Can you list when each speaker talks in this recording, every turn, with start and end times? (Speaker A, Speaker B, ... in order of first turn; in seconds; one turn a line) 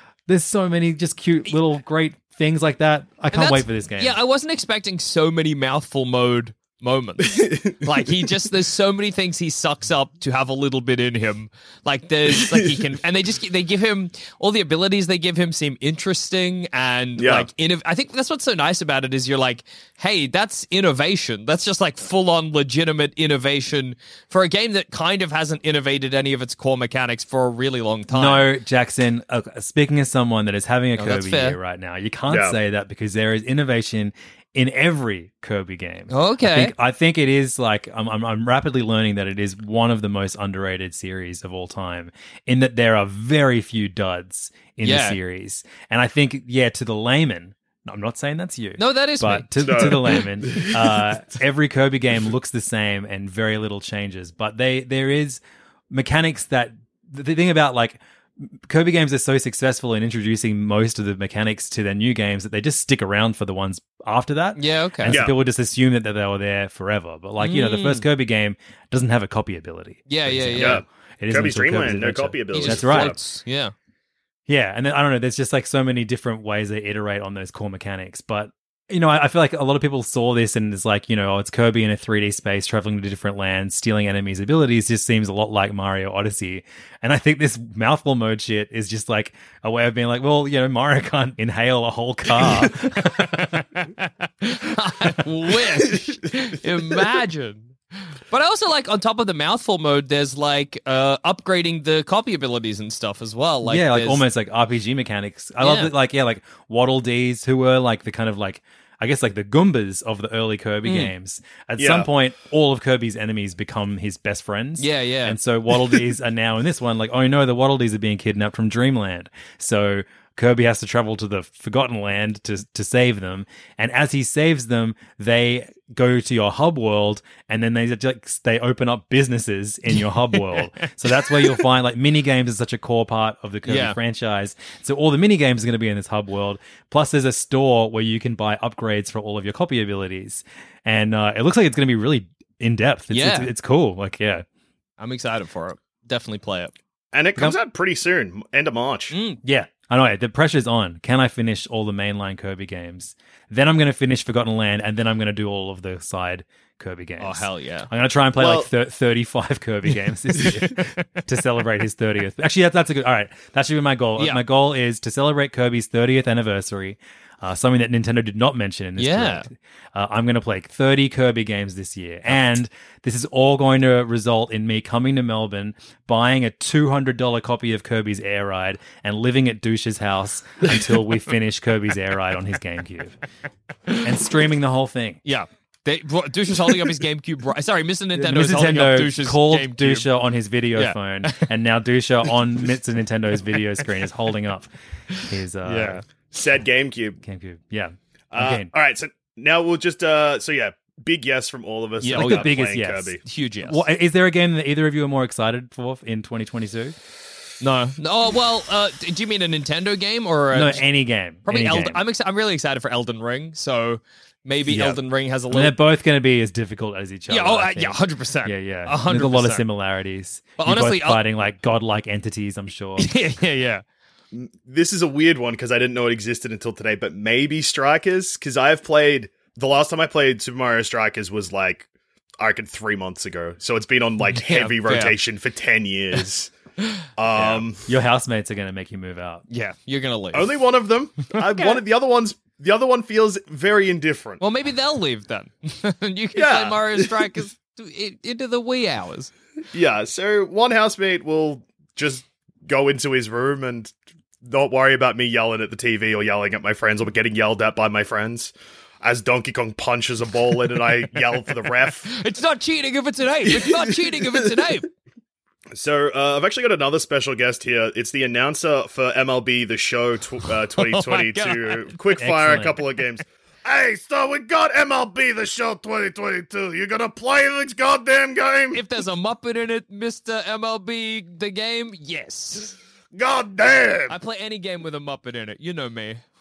Speaker A: 0.3-4.2
Speaker B: 3.3-28.5
Speaker C: 7.2-8.2
Speaker C: 17.2-17.5
Speaker A: 28.1-73.2
Speaker B: 31.0-31.6
Speaker C: 32.3-32.5
Speaker B: 36.1-36.7
Speaker B: 44.8-45.2
Speaker B: 48.8-50.2
Speaker C: 49.6-51.0
Speaker B: 64.5-65.2
Speaker C: 65.1-65.3
Speaker B: 67.4-68.0
Speaker B: 70.1-70.8
Speaker C: 70.5-73.2
Speaker B: 72.5-73.7
Speaker A: 74.5-93.6
Speaker B: 93.3-97.7
Speaker B: 98.3-104.2
Speaker A: 103.6-144.4
Speaker B: 105.6-105.9
Speaker B: 110.8-111.1
Speaker C: 111.8-112.1
Speaker B: 114.8-115.4
Speaker B: 130.3-131.6
Speaker B: 133.7-134.0
Speaker B: 143.1-143.5
Speaker B: 145.0-146.7
Speaker C: 147.1-149.1
Speaker B: 149.1-149.4
Speaker A: 149.4-183.1
Speaker B: 157.2-157.9
Speaker C: 158.4-158.7
Speaker B: 164.2-164.4
Speaker B: 169.0-169.5
Speaker A: 184.0-185.2
Speaker B: 185.2-190.1
Speaker A: 188.2-194.7
Speaker B: 190.7-191.5
Speaker B: 195.1-196.0
Speaker A: 195.2-196.0
Speaker C: 196.3-197.2
Speaker A: 197.2-198.7
Speaker C: 198.3-203.2
Speaker B: 202.0-202.6
Speaker A: 202.1-206.9
Speaker B: 203.2-203.8
Speaker B: 207.6-210.8
Speaker A: 210.5-212.0
Speaker B: 211.4-215.8
Speaker A: 214.6-223.1
Speaker B: 217.3-219.6
Speaker B: 220.6-221.2
Speaker B: 223.0-223.8
Speaker C: 224.3-231.9
Speaker C: 232.4-236.5
Speaker B: 234.3-235.2
Speaker B: 236.8-237.6
Speaker C: 237.2-237.8
Speaker A: 237.8-239.4
Speaker B: 239.5-240.6
Speaker C: 240.3-244.4
Speaker B: 241.4-241.8
Speaker B: 244.4-249.3
Speaker C: 246.3-247.4
Speaker C: 249.7-262.1
Speaker B: 262.1-264.9
Speaker C: 263.5-264.4
Speaker C: 265.7-278.8
Speaker B: 270.8-271.9
Speaker A: 272.1-272.8
Speaker B: 278.7-282.7
Speaker C: 283.1-284.1
Speaker B: 284.1-286.2